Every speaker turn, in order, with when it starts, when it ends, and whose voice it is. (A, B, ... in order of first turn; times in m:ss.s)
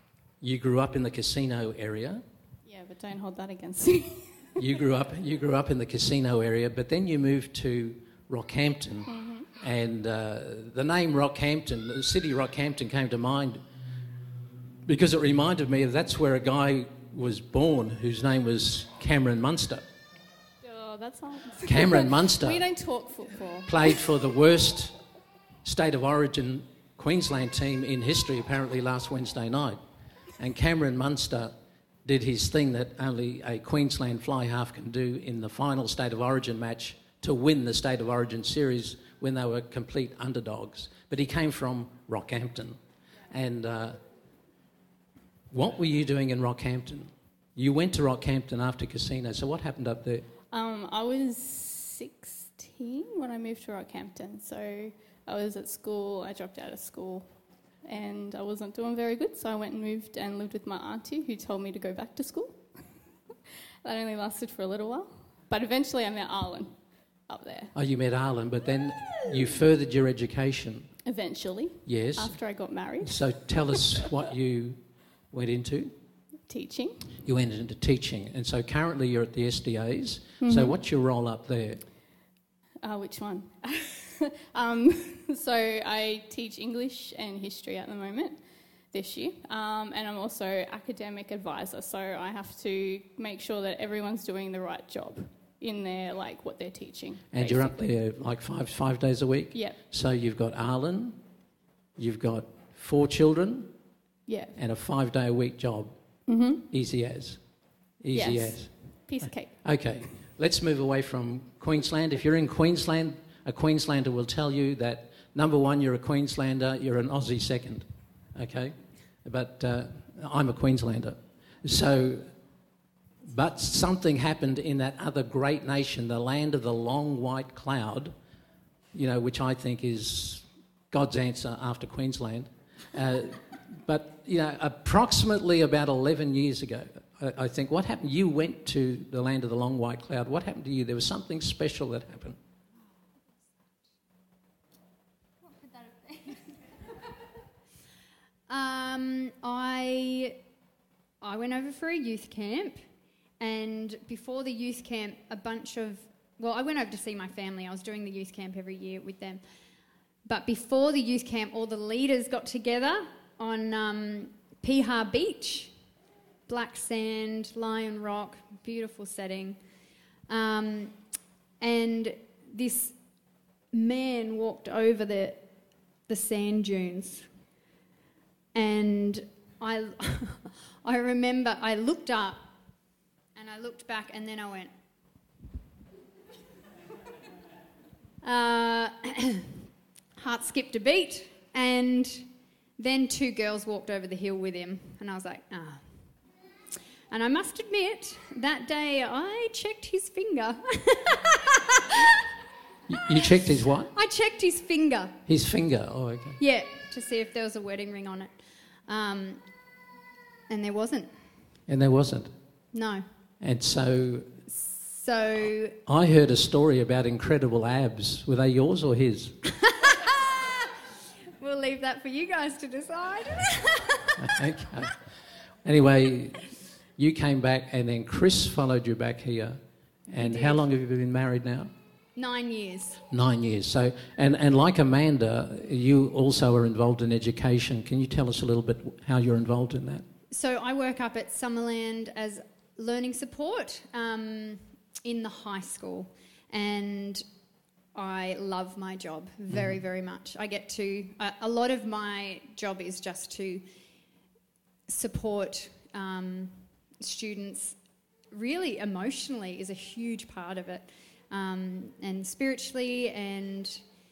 0:00.4-0:02.2 A
0:02.6-0:04.6 B
0:04.6-0:13.6 A
0:09.1-0:09.5 B
0:14.8-0:19.9 A
0:20.6-0:24.0 B
0:21.6-0:22.7 A
0:23.7-0:25.0 A
0:25.6-0:29.8 A
0:30.4-0:31.5 A
0:32.0-0:44.0 A
0:45.5-0:50.3 A
0:50.5-1:03.1 B
1:03.8-1:07.7 B
1:07.7-1:10.9 A
1:11.0-1:13.9 B
1:11.8-1:15.9 A
1:16.5-1:17.1 B
1:17.2-1:21.9 A
1:20.4-1:20.8 B
1:22.8-1:37.9 B
1:37.3-1:41.2 A
1:39.5-1:39.8 B
1:42.0-1:43.8 A
1:44.3-1:44.6 B
1:44.6-2:02.4 A
1:46.3-1:46.6 B
1:48.1-1:49.9 B
2:03.3-2:08.2 A
2:08.9-2:22.4 A
2:28.5-2:30.4 C
2:31.2-2:32.8 C
2:33.4-2:39.4 C
2:40.2-2:45.8 C
2:46.5-2:49.6 C
2:50.3-2:51.0 C
2:51.6-2:53.0 C
2:53.7-2:55.5 C
2:56.1-2:57.3 C
2:58.5-3:02.5 C
3:03.4-3:04.7 C
3:08.2-3:09.6 C
3:10.2-3:16.1 C
3:17.1-3:22.0 C
3:22.9-3:23.9 A
3:23.9-3:25.2 C
3:25.3-3:26.4 A
3:26.4-3:29.4 C
3:30.5-3:31.2 C
3:31.7-3:32.3 A
3:32.7-3:33.1 C
3:33.4-3:34.3 A
3:34.5-3:35.8 C
3:35.9-3:39.4 A
3:39.7-3:40.7 C
3:41.4-3:44.2 C
3:44.2-3:45.1 A
3:45.6-3:51.7 A
3:50.2-3:50.6 C
3:52.2-3:53.0 C
3:53.1-4:00.0 A
4:00.3-4:07.2 C
4:08.0-4:13.7 C
4:09.5-4:09.8 A
4:14.9-4:17.8 C
4:18.3-4:23.8 C